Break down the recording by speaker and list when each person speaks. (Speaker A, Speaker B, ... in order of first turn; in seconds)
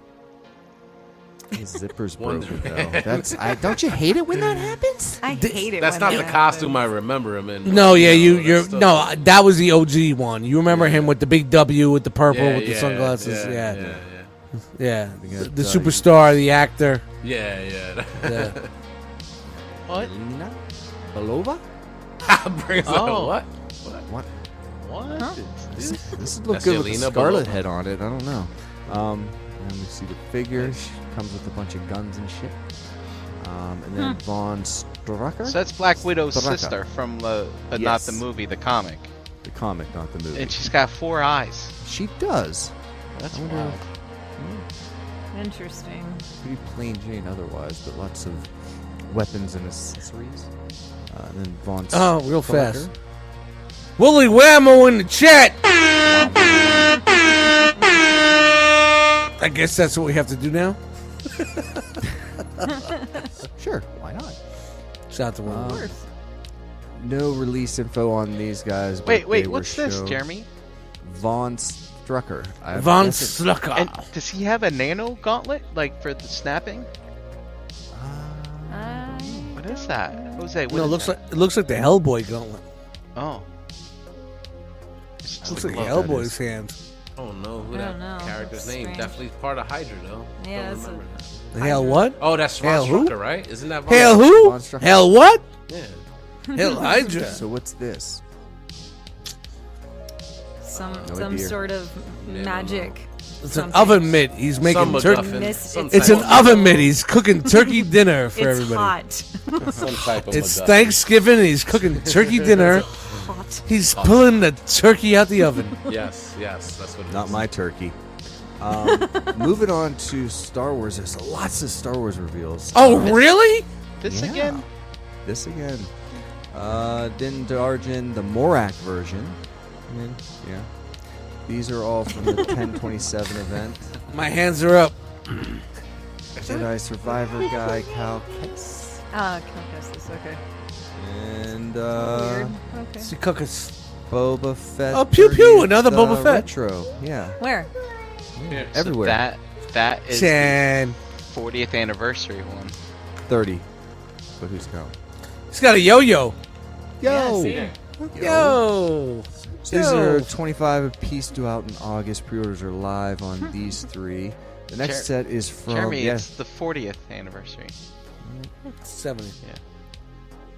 Speaker A: 1.5-5.2, 13.2-14.0, 15.2-16.1, 19.6-21.6, 25.7-32.6, 33.4-36.8, 37.7-38.2, 39.4-40.6, 41.8-42.7, 43.3-43.8, 44.4-44.6, 46.4-48.5, 49.1-50.5, 51.1-52.9, 56.0-56.9, 63.4-64.4, 65.4-65.9, 66.9-70.2, 71.0-73.4, 77.9-79.6, 85.4-86.3, 94.1-95.1, 97.2-98.2, 101.0-101.5, 117.1-118.0, 118.6-123.2, 124.0-124.7, 125.2-125.9, 126.5-130.7, 131.4-133.9, 136.4-139.0, 140.9-142.6, 144.1-147.4, 148.3-149.3, 153.3-153.7, 154.4-154.9, 157.0-158.6, 159.6-166.3
Speaker B: 2.2-3.8, 5.8-9.3, 10.7-11.2, 12.2-14.3, 17.2-18.7, 22.2-23.5, 26.5-27.6, 87.2-94.3, 95.7-96.0, 100.7-101.4, 102.2-103.0, 104.5-106.9, 109.8-111.2, 111.8-113.3, 113.9-114.4, 115.9-117.5, 148.5-148.8, 157.5-157.7
Speaker C: 5.2-6.7, 45.3-46.2, 65.6-66.0, 78.7-80.4, 87.7-89.2, 90.4-92.1, 96.5-97.1, 100.6-104.2, 104.9-106.8, 107.5-110.1, 113.0-113.6, 115.5-115.9, 118.7-119.4, 139.1-140.4, 141.9-143.1, 147.4-147.7, 157.0-157.7
Speaker D: 5.3-6.2, 7.6-13.8, 14.8-17.0, 18.2-18.5, 51.9-52.9, 54.0-55.6, 59.4-60.8, 65.1-65.9, 72.7-74.1, 80.7-82.6, 85.4-86.8, 91.5-93.2, 93.9-95.5, 96.5-97.4, 103.4-109.0, 110.3-112.9, 113.7-115.8, 122.7-123.7, 134.1-134.9, 143.0-143.7, 144.9-146.5, 150.1-151.0, 155.5-156.3, 158.2-160.3, 168.3-169.3
Speaker E: 19.9-20.1, 22.8-23.4, 24.8-26.1, 35.5-39.1, 40.3-41.7, 43.1-43.8, 69.0-70.5, 73.7-76.9, 79.5-81.2, 83.1-83.5, 85.2-86.2, 124.0-124.6, 148.7-150.6, 151.3-152.8, 164.8-165.1, 165.7-167.7